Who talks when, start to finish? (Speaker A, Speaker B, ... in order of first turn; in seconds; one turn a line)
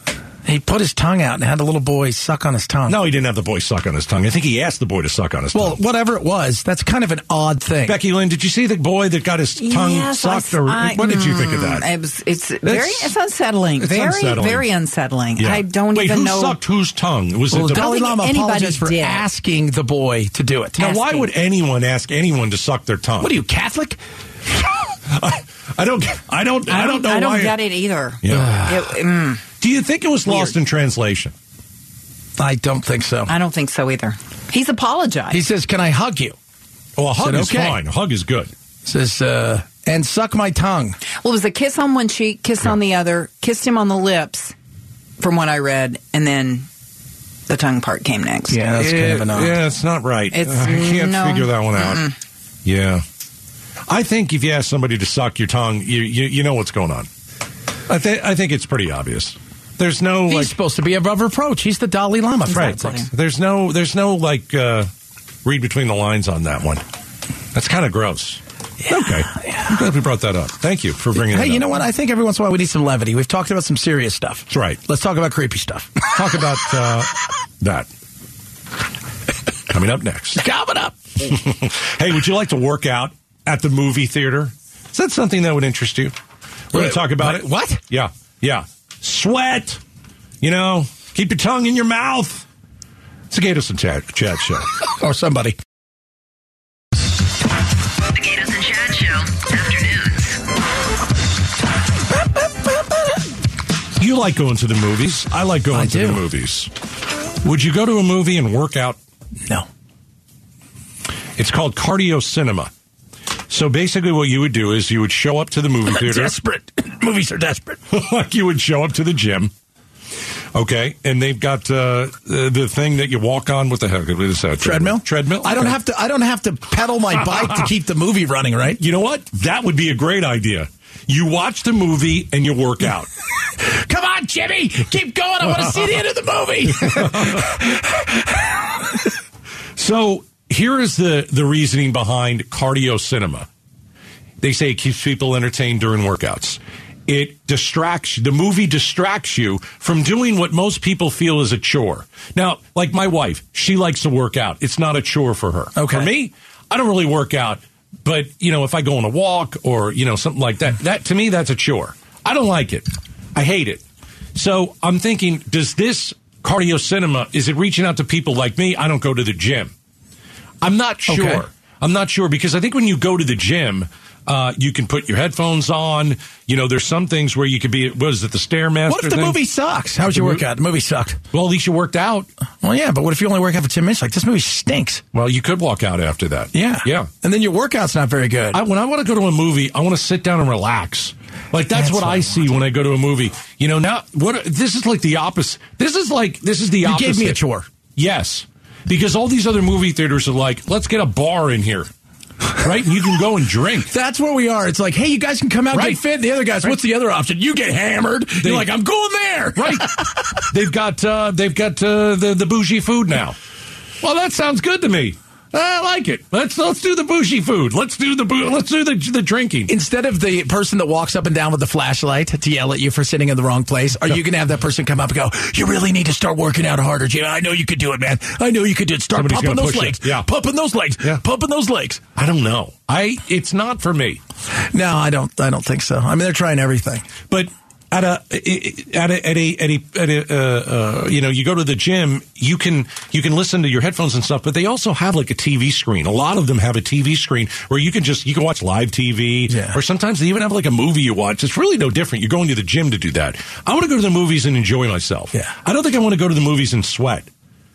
Speaker A: 0.5-3.0
Speaker B: 2.9-5.8
Speaker A: 5.5-8.0
Speaker B: 7.9-11.8
Speaker C: 9.6-16.6
Speaker B: 12.7-13.1
Speaker B: 13.8-14.7
Speaker B: 15.4-17.9
Speaker A: 17.5-20.8
Speaker C: 17.7-19.2
Speaker C: 20.8-21.3
Speaker B: 20.8-23.4
Speaker A: 23.2-24.0
Speaker B: 25.1-27.6
Speaker C: 26.7-29.4
Speaker B: 28.2-28.6
Speaker A: 28.3-28.8
Speaker B: 29.6-31.3
Speaker A: 32.4-33.3
Speaker C: 33.3-35.4
Speaker A: 35.3-36.4
Speaker B: 37.0-38.5
Speaker A: 37.2-37.8
Speaker A: 38.9-41.0
Speaker C: 41.2-44.5
Speaker C: 45.2-46.7
Speaker C: 47.5-48.6
Speaker A: 48.5-49.6
Speaker B: 48.8-52.1
Speaker C: 50.3-52.1
Speaker B: 52.6-53.0
Speaker B: 53.9-57.1
Speaker B: 57.9-60.5
Speaker A: 60.3-63.1
Speaker B: 62.5-64.9
Speaker B: 65.5-66.8
Speaker B: 67.5-71.7
Speaker A: 68.8-69.8
Speaker A: 71.2-76.1
Speaker B: 74.5-74.8
Speaker B: 76.1-77.9
Speaker B: 79.7-80.4
Speaker A: 80.4-81.0
Speaker B: 81.2-86.1
Speaker B: 86.7-89.8
Speaker A: 86.7-87.8
Speaker B: 90.4-92.5
Speaker B: 93.3-94.7
Speaker A: 95.0-95.6
Speaker D: 98.1-100.4
Speaker B: 104.0-106.7
Speaker A: 105.7-106.2
Speaker B: 107.4-109.0
Speaker B: 111.4-112.7
Speaker B: 113.5-116.4
Speaker A: 115.9-117.8
Speaker B: 117.9-119.5
Speaker B: 120.5-125.8
Speaker A: 124.6-128.8
Speaker B: 128.8-133.1
Speaker A: 133.5-139.1
Speaker B: 136.8-137.6
Speaker B: 139.8-143.5
Speaker B: 144.4-163.8
Speaker A: 155.8-156.1
Speaker B: 164.3-169.7
Speaker B: 170.6-179.4
Speaker A: 171.1-171.5
Speaker A: 178.9-181.2
Speaker B: 180.1-180.4
Speaker B: 181.3-182.3
Speaker A: 182.6-185.0
Speaker B: 185.1-187.1
Speaker A: 186.5-188.6
Speaker B: 188.5-197.4
Speaker A: 191.7-192.5
Speaker A: 196.8-197.7
Speaker B: 198.0-201.9
Speaker B: 202.5-203.9
Speaker A: 203.9-210.5
Speaker B: 205.7-206.0
Speaker B: 208.4-208.7
Speaker B: 209.6-209.9
Speaker B: 210.5-213.4
Speaker B: 214.0-219.7
Speaker A: 219.7-232.1
Speaker B: 229.2-230.3
Speaker B: 232.2-234.2
Speaker A: 234.6-237.1
Speaker B: 237.3-257.3
Speaker A: 249.5-249.8